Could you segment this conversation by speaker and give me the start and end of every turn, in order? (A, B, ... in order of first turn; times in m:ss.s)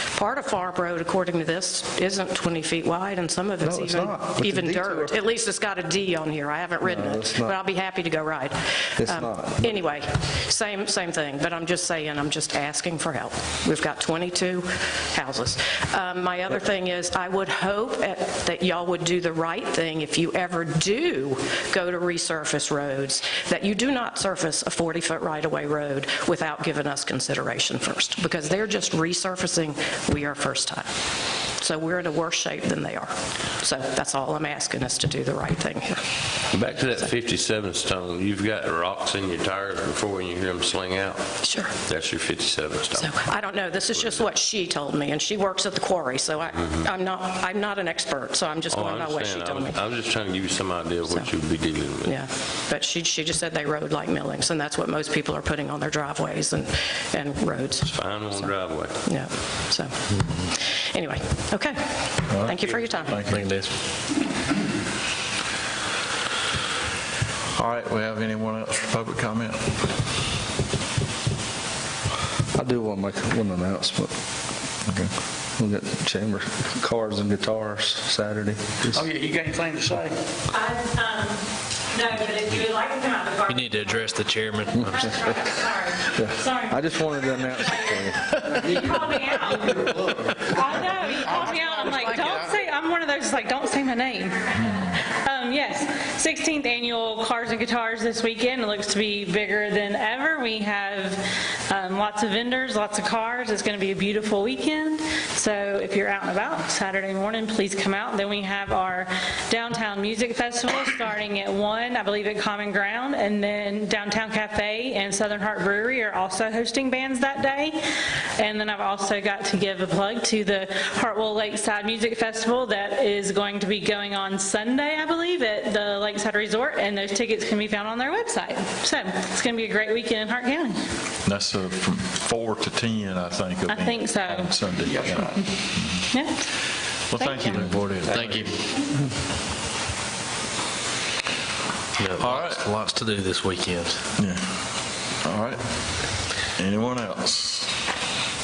0:00.1-0:30.9 A
0:03.6-0:05.1 B
0:06.8-0:07.5 B
0:09.0-0:09.8 B
0:31.6-0:36.0 A
0:36.5-0:41.2 C
0:41.4-0:41.7 A
0:41.8-0:43.1 C
0:43.0-0:49.8 A
0:43.8-0:44.2 C
0:48.7-0:52.2 C
0:52.0-1:03.2 A
0:57.9-0:59.0 C
1:02.3-1:03.5 D
1:03.3-1:03.7 E
1:07.6-1:09.8 D
1:12.5-1:14.1 B
1:14.9-1:15.1 D
1:15.6-1:19.0 B
1:18.9-1:20.2 F
1:20.5-1:57.8 G
1:23.5-1:25.1 E
1:26.2-1:28.8 B
1:31.3-1:32.5 F
1:58.4-2:10.8 G
2:11.2-2:16.1 D
2:13.7-2:14.6 G
2:14.8-2:15.6 F
2:16.1-2:16.4 G
2:17.1-2:18.5 D
2:17.2-2:17.8 G
2:17.5-2:18.5 E
2:22.0-2:24.0 E
2:22.2-2:22.7 D
2:24.2-2:24.4 D
2:25.2-2:26.0 D
2:26.6-2:27.7 D